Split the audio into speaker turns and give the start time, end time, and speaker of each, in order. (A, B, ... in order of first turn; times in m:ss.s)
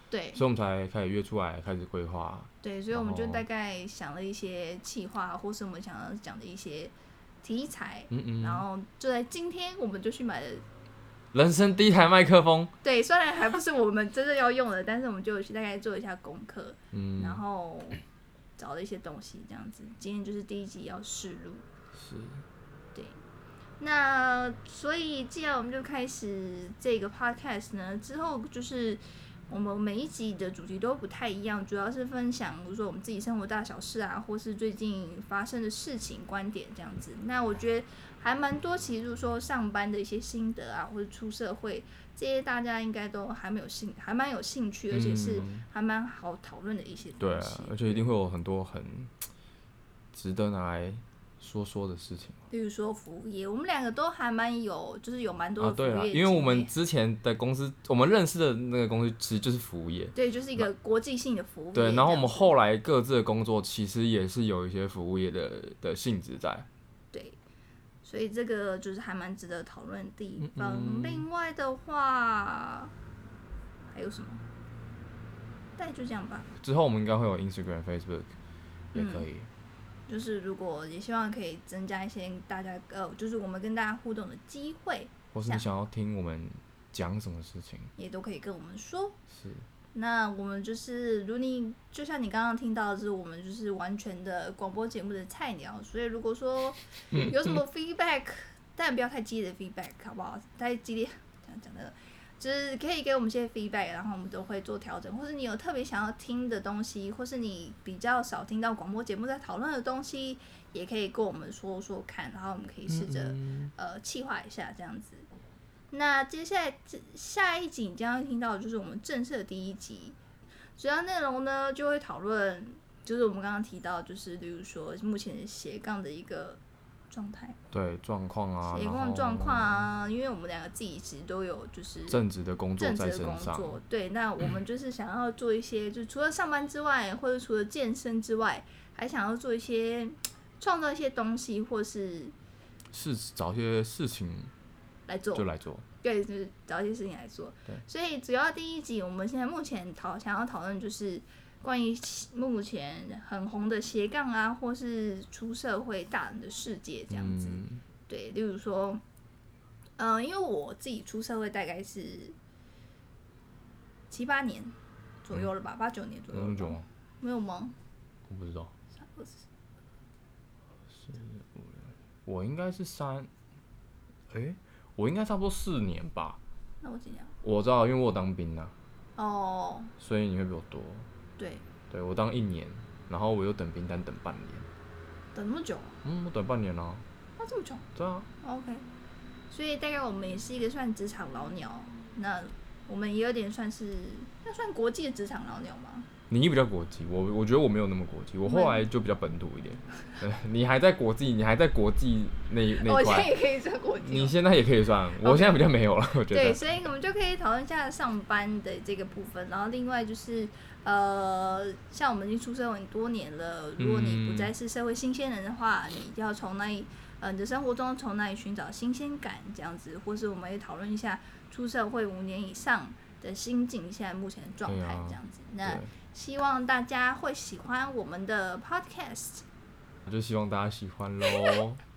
0:00.1-0:00.4 A
0:00.3-0:03.4 B
0:02.6-0:10.6 A
0:08.1-0:08.6 B
0:11.3-0:12.7 B
0:12.8-0:18.0 A
0:16.9-0:17.4 B
0:18.6-0:21.6 A
0:21.9-0:22.4 B
0:22.9-0:23.2 A
0:23.8-0:48.1 A
0:44.9-0:45.6 B
0:47.2-0:49.1 B
0:50.1-0:52.4 B
0:52.5-0:56.7 A
0:55.6-1:00.7 B
1:00.1-1:02.5 A
1:01.7-1:06.7 B
1:08.0-1:12.9 A
1:10.4-1:11.3 B
1:13.9-1:14.4 A
1:15.8-1:16.5 A
1:16.6-1:18.3 B
1:18.9-1:19.5 B
1:18.9-1:19.2 A
1:20.1-1:25.7 A
1:25.3-1:27.9 B
1:28.0-1:29.2 A
1:29.9-1:55.3 A
1:52.9-1:53.7 B
1:55.9-2:00.2 A
2:00.7-2:06.6 A
2:07.1-2:07.6 A
2:07.7-2:09.8 B
2:08.6-2:12.2 A
2:12.1-2:13.8 B
2:12.8-2:22.3 A
2:22.9-2:24.5 B
2:25.1-2:25.4 A
2:25.3-2:25.8 B
2:26.0-2:39.0 A
2:37.1-2:37.8 B
2:40.0-2:42.4 A
2:44.1-2:47.8 A
2:46.3-2:46.8 B
2:48.3-2:48.7 B
2:49.0-2:49.4 A
2:51.0-2:51.7 B
2:52.2-2:53.3 B
2:54.3-2:56.4 B
2:56.8-2:57.3 A
2:57.4-2:58.7 B
2:59.2-2:59.9 A
3:00.0-3:01.1 B
3:01.4-3:01.6 A
3:01.9-3:04.7 B
3:05.3-3:06.0 A
3:06.0-3:07.0 B
3:07.4-3:07.8 A
3:08.0-3:08.3 B
3:08.4-3:08.8 A
3:09.5-3:16.1 A
3:16.3-3:23.4 B
3:18.4-3:18.8 A
3:22.8-3:24.4 A
3:24.0-3:26.7 B
3:25.2-3:25.6 A
3:26.3-3:49.4 A
3:33.8-3:34.5 B
3:44.6-3:45.9 B
3:50.0-3:51.8 B